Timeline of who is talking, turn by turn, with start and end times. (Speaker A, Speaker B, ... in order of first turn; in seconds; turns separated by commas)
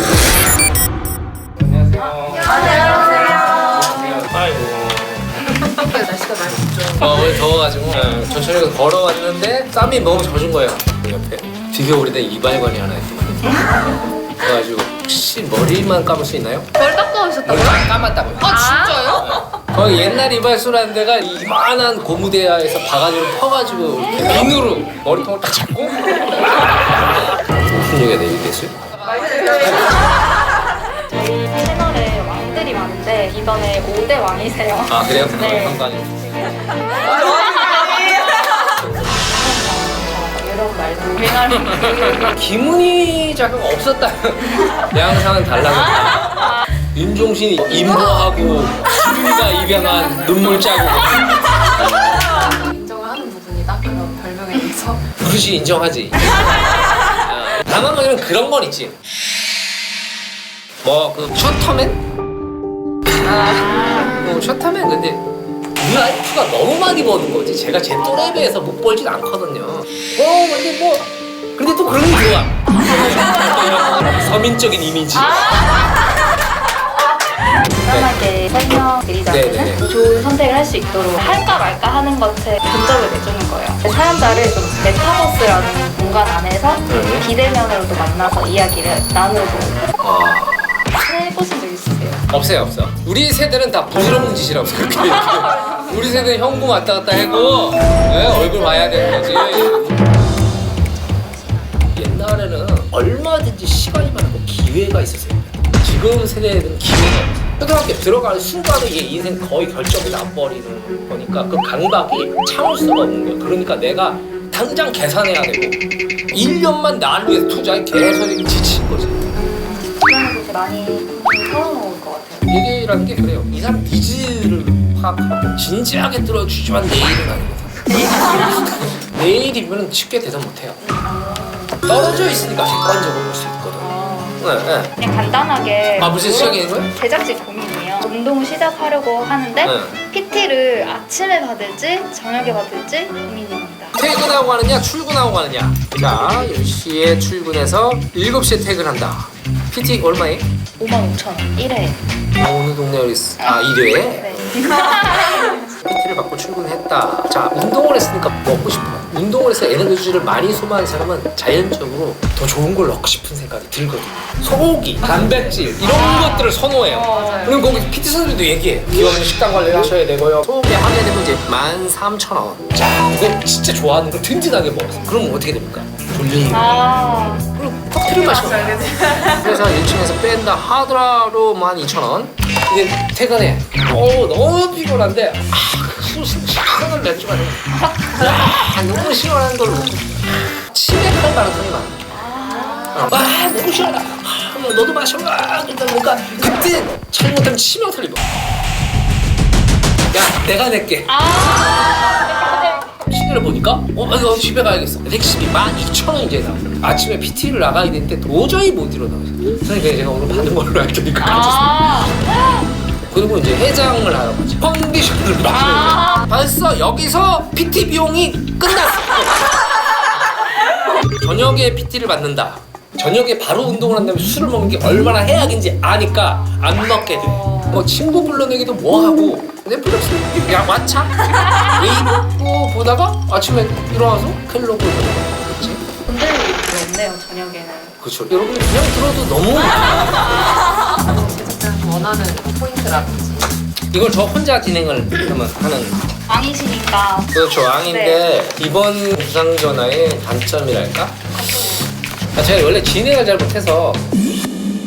Speaker A: 1.6-5.6, Speaker B: 2.5-3.5, Speaker C: 5.6-7.2, Speaker A: 6.9-13.7, Speaker A: 14.4-16.7, Speaker B: 16.8-17.4, Speaker A: 17.4-28.7, Speaker B: 18.4-19.3, Speaker B: 29.1-30.0, Speaker A: 29.4-29.9, Speaker B: 30.9-35.8, Speaker A: 34.9-36.3, Speaker B: 36.6-42.3, Speaker A: 41.9-51.4, Speaker C: 51.8-55.0, Speaker A: 55.2-59.0, Speaker A: 60.8-62.0, Speaker A: 63.2-65.2, Speaker B: 63.6-64.2, Speaker A: 65.8-75.8, Speaker B: 75.2-76.1, Speaker A: 77.6-78.1, Speaker B: 77.7-89.9, Speaker A: 79.3-79.8, Speaker A: 86.9-87.2, Speaker A: 90.0-90.9, Speaker B: 90.9-92.2, Speaker A: 92.3-100.0, Speaker B: 95.1-96.2, Speaker A: 101.9-115.8, Speaker A: 116.3-119.2, Speaker B: 119.3-122.5, Speaker A: 122.5-130.8, Speaker B: 127.9-128.9, Speaker B: 130.8-131.8, Speaker A: 131.8-134.9, Speaker B: 133.8-134.4, Speaker B: 135.0-143.9, Speaker A: 136.0-136.9, Speaker A: 139.6-140.0, Speaker A: 143.9-150.5, Speaker B: 150.8-152.0, Speaker A: 152.4-192.0, Speaker B: 153.4-155.7, Speaker B: 165.8-167.8, Speaker C: 167.1-167.9, Speaker B: 176.5-177.4, Speaker C: 178.3-179.4, Speaker B: 188.0-188.2, Speaker B: 192.1-193.2, Speaker A: 192.9-198.3, Speaker A: 200.1-201.2, Speaker B: 201.1-202.9, Speaker A: 202.7-212.2, Speaker B: 211.2-212.6, Speaker A: 213.0-219.6, Speaker B: 215.5-216.3, Speaker A: 220.9-235.8, Speaker B: 227.1-227.8, Speaker B: 236.1-237.9, Speaker A: 238.0-240.4, Speaker B: 240.1-240.6, Speaker C: 240.6-243.6, Speaker A: 243.9-246.0, Speaker B: 246.3-247.3, Speaker A: 247.3-251.2, Speaker B: 247.8-248.3, Speaker C: 251.5-251.8, Speaker A: 252.3-254.0